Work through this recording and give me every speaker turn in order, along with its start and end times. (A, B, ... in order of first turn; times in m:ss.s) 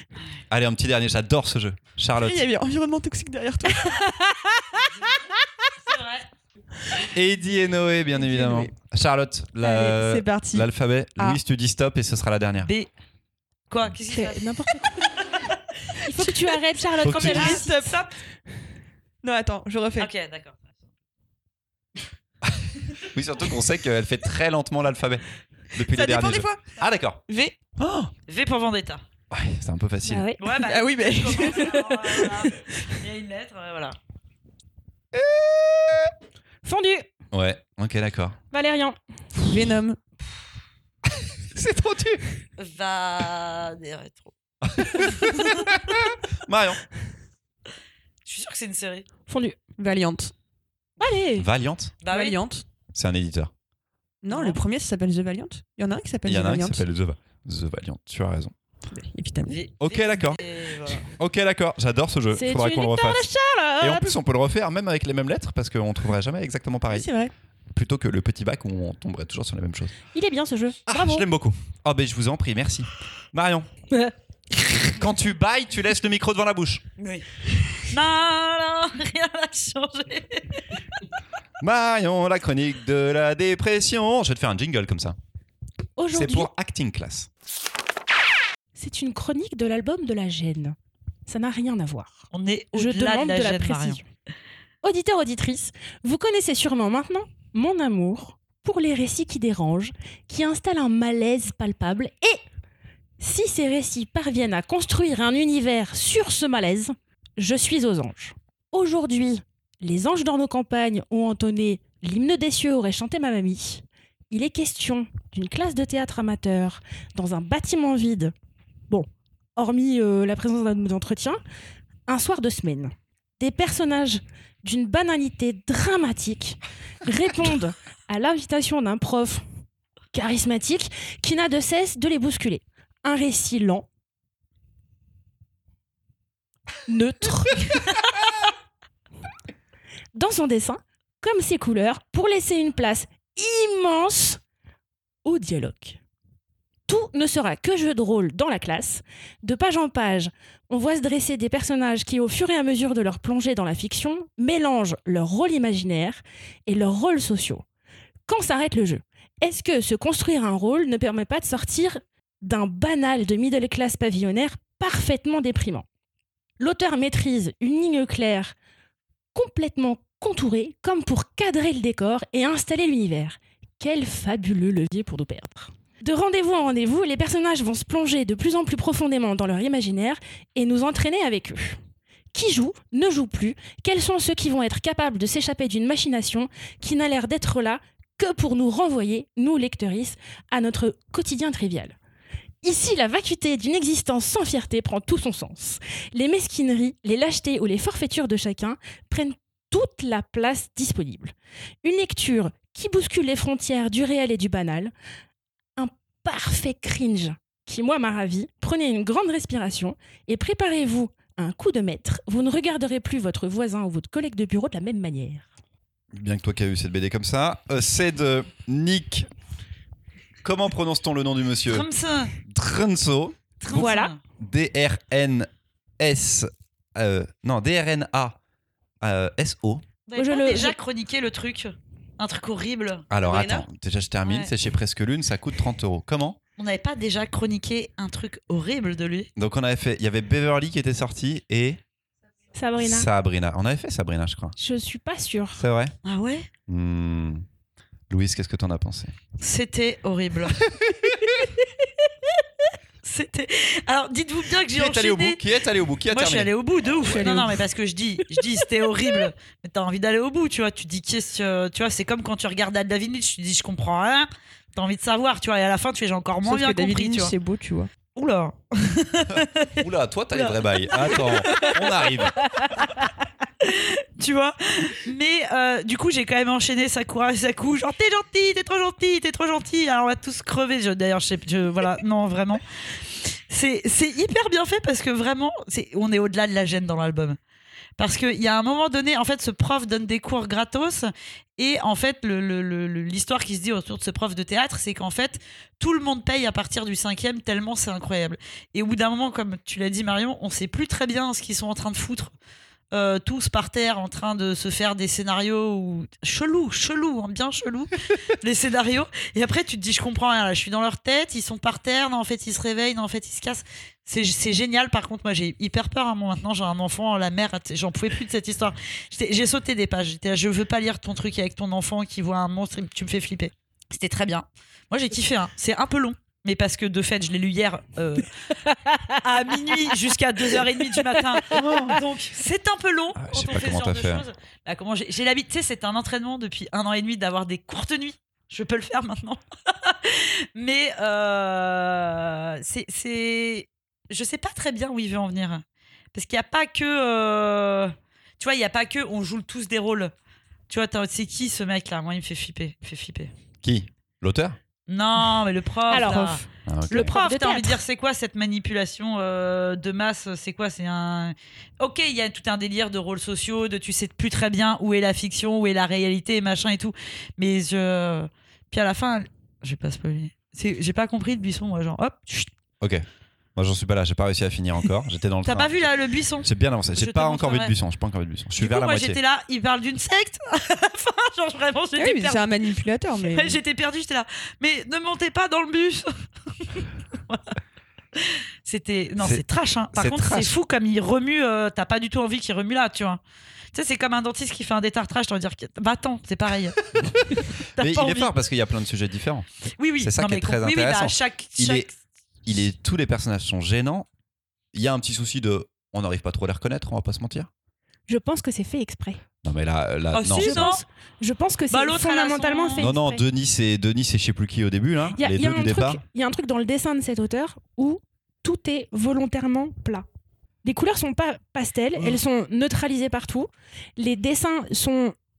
0:00.5-0:02.4 A
0:02.2-0:04.0 B
0:03.9-0:04.8 C
0:04.8-0:05.2 D
0:05.8-0:06.3 D
0:07.1-0:12.7 A
0:08.2-0:08.7 B
0:09.6-0:11.4 B
0:13.7-0:15.5 D
0:14.1-0:15.1 C
0:16.0-0:17.9 C
0:17.0-0:17.6 A
0:17.0-0:18.1 B
0:17.3-0:17.6 D
0:19.2-0:20.1 B
0:20.0-0:20.7 D
0:22.5-0:27.2 A
0:25.9-0:27.6 B
0:27.8-0:28.1 A
0:28.3-0:29.0 D
0:29.3-0:30.3 A
0:30.0-0:30.4 C
0:30.4-0:34.0 D
0:30.5-0:31.9 B
0:35.1-0:36.1 A
0:36.6-0:37.1 C
0:37.3-0:38.4 A
0:38.5-0:39.0 C
0:39.5-0:40.0 B
0:41.5-0:42.2 A
0:42.6-0:44.3 D
0:44.6-0:46.8 A
0:44.9-0:45.8 D
0:48.2-0:49.0 D
0:49.3-0:49.6 C
0:49.8-0:50.3 B
0:51.0-0:51.5 C
0:51.3-0:51.9 A
0:52.0-0:52.4 D
0:52.1-0:52.6 B
0:52.9-0:53.5 A
0:54.2-0:56.8 B
0:54.3-0:54.6 D
0:56.2-0:58.5 A
0:58.9-0:59.6 B
0:59.5-1:01.1 D
0:59.8-1:00.4 A
1:01.0-1:03.3 A
1:02.3-1:04.1 C
1:03.8-1:07.1 A
1:06.9-1:07.3 B
1:07.7-1:10.0 A
1:10.1-1:11.3 C
1:10.9-1:13.7 A
1:14.9-1:16.8 A
1:17.0-1:20.6 D
1:21.6-1:25.2 A
1:26.0-1:26.5 C
1:26.1-1:27.3 A
1:28.8-1:34.0 C
1:32.3-1:34.0 D
1:34.8-1:42.4 C
1:43.2-1:58.3 C
1:58.9-2:01.4 C
2:02.1-2:09.4 C
2:10.1-2:13.8 C
2:16.9-2:18.1 C
2:20.1-2:24.4 C
2:25.2-2:26.0 C
2:26.9-2:37.6 C
2:38.3-2:45.8 C
2:46.6-2:48.5 C
2:49.3-3:01.8 C
3:02.3-3:12.0 C
3:12.6-3:24.9 C
3:25.8-3:35.4 C
3:36.1-3:39.3 A
3:40.4-3:41.9 A
3:41.7-3:42.3 D
3:42.4-3:43.8 A
3:43.6-3:44.2 D
3:43.7-3:44.1 C
3:44.4-3:48.4 A
3:49.0-3:49.8 A
3:50.1-3:53.6 D
3:50.2-3:50.8 C
3:53.1-3:56.4 A
3:54.2-3:54.5 D
3:56.6-3:59.3 D
3:59.4-4:01.8 A
4:02.5-4:03.1 C
4:02.8-4:04.5 A
4:04.6-4:05.6 C
4:05.6-4:05.9 A
4:06.0-4:06.5 D
4:06.7-4:07.4 A
4:08.1-4:09.1 A
4:09.4-4:10.6 D
4:10.8-4:11.3 A
4:13.0-4:15.4 D
4:14.7-4:16.5 A
4:16.1-4:27.3 D
4:17.0-4:17.6 B
4:26.4-4:27.9 B
4:28.1-4:33.0 D
4:29.3-4:32.4 A
4:33.6-4:42.6 D
4:43.2-4:47.4 D
4:48.0-5:02.3 D
5:02.9-5:28.3 D
5:29.1-5:45.6 D
5:31.5-5:32.0 A
5:33.2-5:34.2 A
5:46.1-5:50.1 D
5:50.7-5:53.3 D
5:53.6-5:54.6 A
5:54.9-6:12.5 D
5:55.9-5:57.8 C
5:56.6-5:57.1 A
6:13.6-6:15.9 A
6:15.4-6:17.7 D
6:16.4-6:19.2 A
6:18.6-6:22.5 D
6:22.0-6:23.6 B
6:23.2-6:27.4 D
6:28.2-6:33.2 D
6:29.2-6:30.5 A
6:33.7-6:36.8 D
6:37.0-6:39.4 A
6:37.8-6:38.3 D
6:39.8-6:41.9 D
6:40.0-6:41.9 A
6:42.4-6:44.1 A
6:44.7-6:47.5 A
6:48.1-6:49.2 C
6:49.4-6:50.7 A
6:50.1-6:50.8 D
6:50.3-6:53.2 C
6:51.7-6:52.9 D
6:52.8-6:56.0 A
6:55.2-7:00.0 C
7:00.6-7:05.1 C